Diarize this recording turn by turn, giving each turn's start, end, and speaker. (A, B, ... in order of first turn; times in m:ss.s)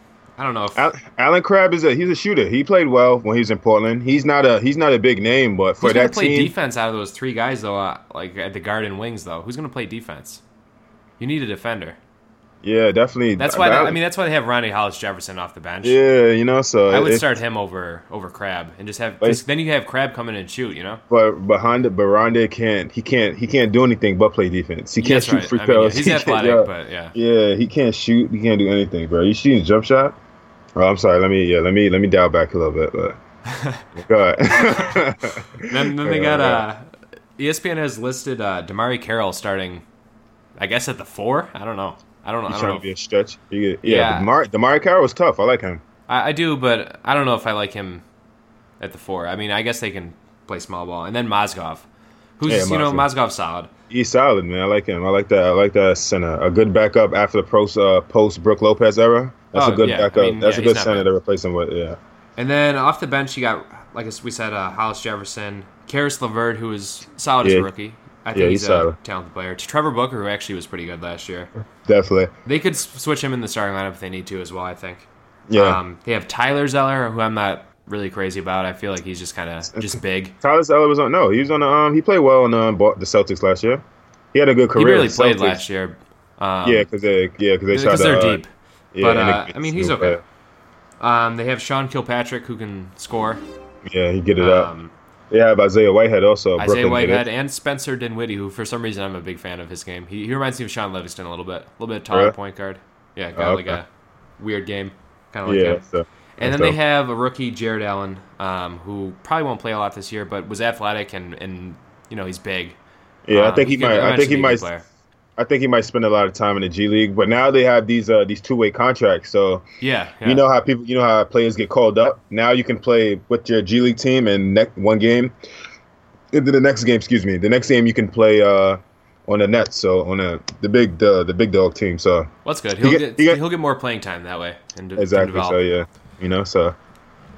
0:00.4-0:00.9 A
0:00.8-0:06.5 B
0:05.8-0:10.4 A
0:11.2-0:12.0 A
0:12.6-0:14.0 B
0:13.4-0:16.0 A
0:15.8-0:17.3 B
0:16.9-0:21.0 A
0:21.1-0:30.1 B
0:25.0-0:27.2 A
0:30.8-0:33.2 B
0:33.5-0:33.8 A
0:34.0-0:36.6 B
0:35.6-0:39.8 A
0:40.6-0:42.8 A
0:42.5-0:45.8 B
0:43.8-0:44.3 A
0:46.1-0:48.0 A
0:48.8-0:51.9 A
0:52.4-0:53.7 A
0:52.5-0:53.1 B
0:53.9-1:02.0 B
0:59.5-1:01.1 A
1:02.4-1:11.5 A
1:07.4-1:07.7 B
1:08.3-1:09.0 B
1:11.9-1:12.3 B
1:12.4-1:20.4 A
1:15.5-1:15.8 B
1:19.8-1:23.8 B
1:24.3-1:25.6 B
1:24.8-1:26.9 A
1:26.6-1:28.4 B
1:27.7-1:30.2 A
1:28.9-1:30.2 B
1:31.0-1:33.4 A
1:33.8-1:34.7 B
1:34.4-1:34.9 A
1:35.3-1:37.2 B
1:36.6-1:43.9 A
1:43.4-1:43.8 B
1:44.4-1:45.8 A
1:45.5-1:46.8 B
1:46.4-1:52.8 A
1:53.3-1:54.7 B
1:53.3-1:54.8 A
1:55.4-1:59.6 B
1:59.8-2:00.4 A
2:00.2-2:05.3 B
2:06.3-2:13.4 B
2:12.4-2:15.6 A
2:15.0-2:16.8 B